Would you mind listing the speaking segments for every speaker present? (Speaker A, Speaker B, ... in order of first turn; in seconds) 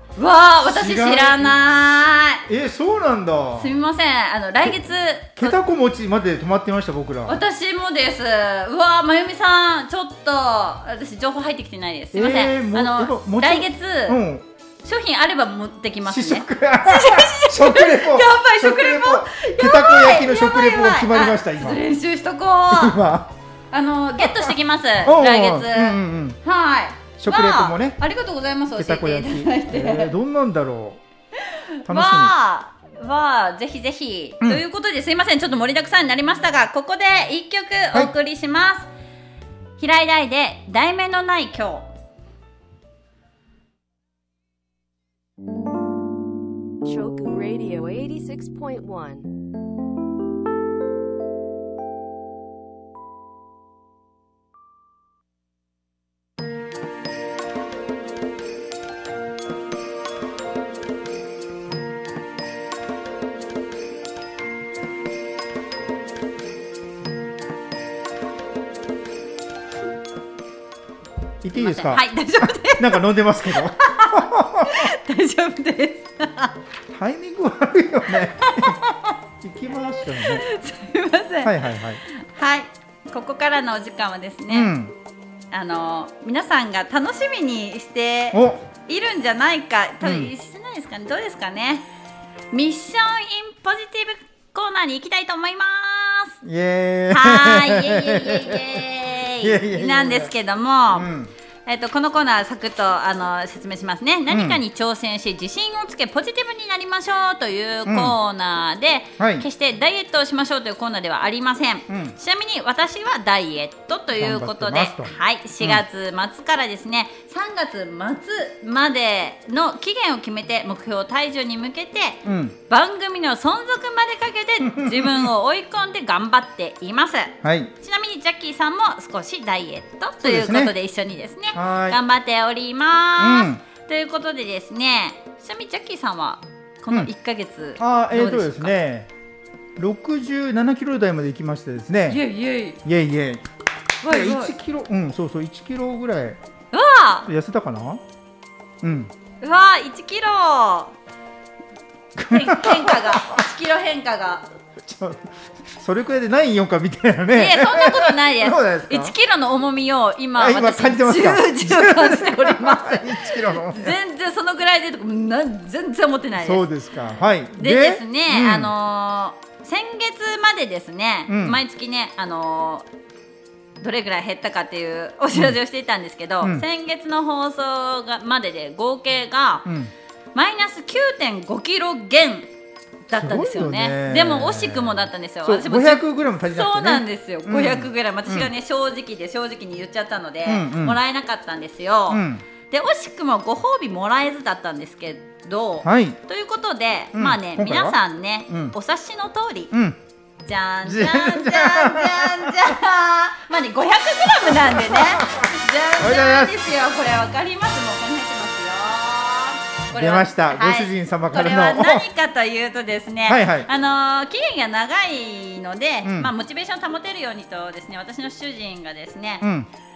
Speaker A: 0.2-2.4, 3.5-5.6, 7.3-14.2, 14.8-23.0, 23.7-30.1, 31.4-38.9, 39.8-41.9, 71.5-73.0, 73.5-76.6, 78.4-78.8, 80.1-84.7, 85.5-91.9, 92.5-96.4, 97.1-101.1, 101.7-138.7, 142.1-142.8, 144.0-144.5, 146.7-147.3, 149.4-150.9, 152.3-154.5, 157.3-166.7, 167.6-172.9, 173.8-179.7, 180.3-182.5, 183.1-199.7, 200.4-219.5
Speaker B: 0.6-1.6, 2.5-3.7, 5.4-7.4, 12.1-14.4, 16.1-21.8, 22.7-23.4, 24.2-26.4, 27.2-28.0, 28.8-31.0, 31.9-32.3, 71.4-74.9, 76.9-80.5, 81.4-82.0, 84.5-84.9, 88.3-88.7, 90.0-90.3, 96.4-98.8, 99.4-100.3, 100.9-101.3, 104.3-104.6, 107.9-108.2, 109.2-109.5, 111.9-112.2, 114.2-115.8, 122.2-122.5, 124.6-125.3, 127.4-127.7, 130.2-130.7, 131.5-132.0, 133.2-133.6, 137.8-139.1, 139.8-142.2, 142.8-143.4, 144.1-146.4, 147.3-148.0, 148.8-149.1, 152.2-153.4, 154.8-159.1, 160.4-164.0, 166.4-168.7, 171.3-171.6, 179.7-179.9, 183.1-184.9, 185.4-188.5, 190.5-191.0, 192.1-192.4, 195.8-196.2, 197.1-198.0, 198.5-198.8, 199.7-200.0, 200.8-202.7, 204.2-206.6, 209.9-212.1, 213.3-213.7, 216.1-216.3, 219.4-219.7
Speaker C: 46.9-49.3